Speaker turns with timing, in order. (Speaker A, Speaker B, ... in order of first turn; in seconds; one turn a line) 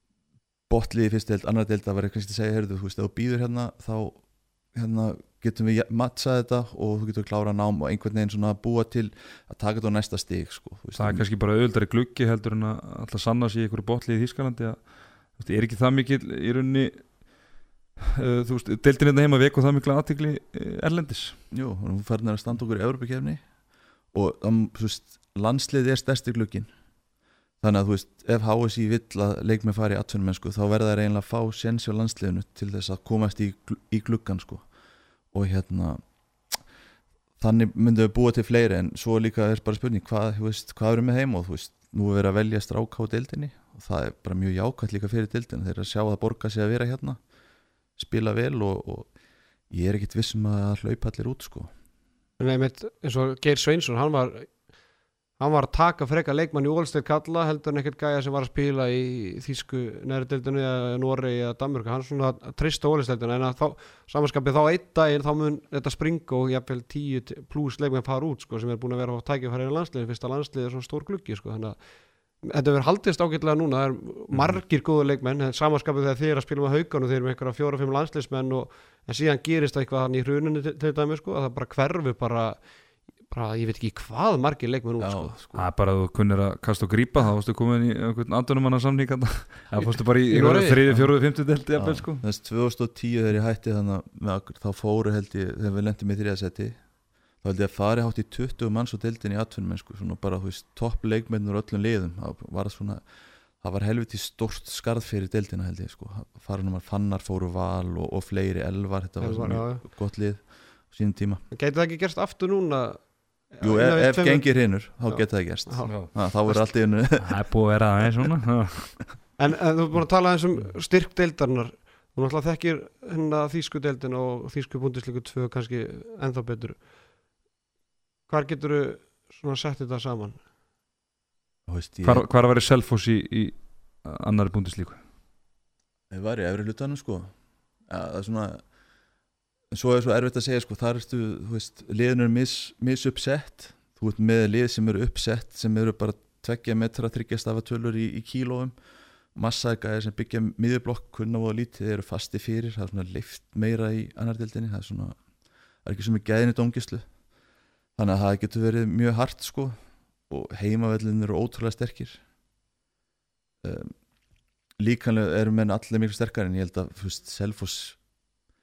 Speaker A: 0.7-11.3
Speaker B: 11.0-17.3
Speaker B: 18.0-21.4
Speaker A: 21.5-23.4
Speaker A: 24.1-26.7
Speaker A: 27.6-34.7
Speaker A: 35.3-36.0
Speaker A: 37.4-47.2
Speaker A: 48.0-49.1
Speaker A: 49.7-51.7
Speaker C: 52.4-54.6
Speaker C: 55.4-71.9
Speaker C: 72.4-82.7
Speaker B: 74.3-74.6
Speaker C: 83.3-85.4
Speaker A: 85.0-85.7
Speaker B: 85.5-92.2
Speaker C: 89.8-91.1
Speaker A: 91.8-96.8
Speaker A: 97.4-111.4
Speaker C: 109.2-109.8
Speaker C: 111.5-116.7
Speaker A: 113.6-117.4
Speaker B: 117.2-119.1
Speaker C: 119.4-126.9
Speaker C: 128.3-130.4
Speaker A: 131.7-132.3
Speaker B: 132.0-135.0
Speaker A: 136.1-137.3
Speaker A: 137.9-138.7
Speaker A: 139.7-148.8
Speaker A: 149.3-155.2
Speaker A: 155.8-157.1
Speaker A: 158.0-159.8
Speaker A: 160.3-162.2
Speaker A: 163.6-163.9
Speaker A: 164.8-168.0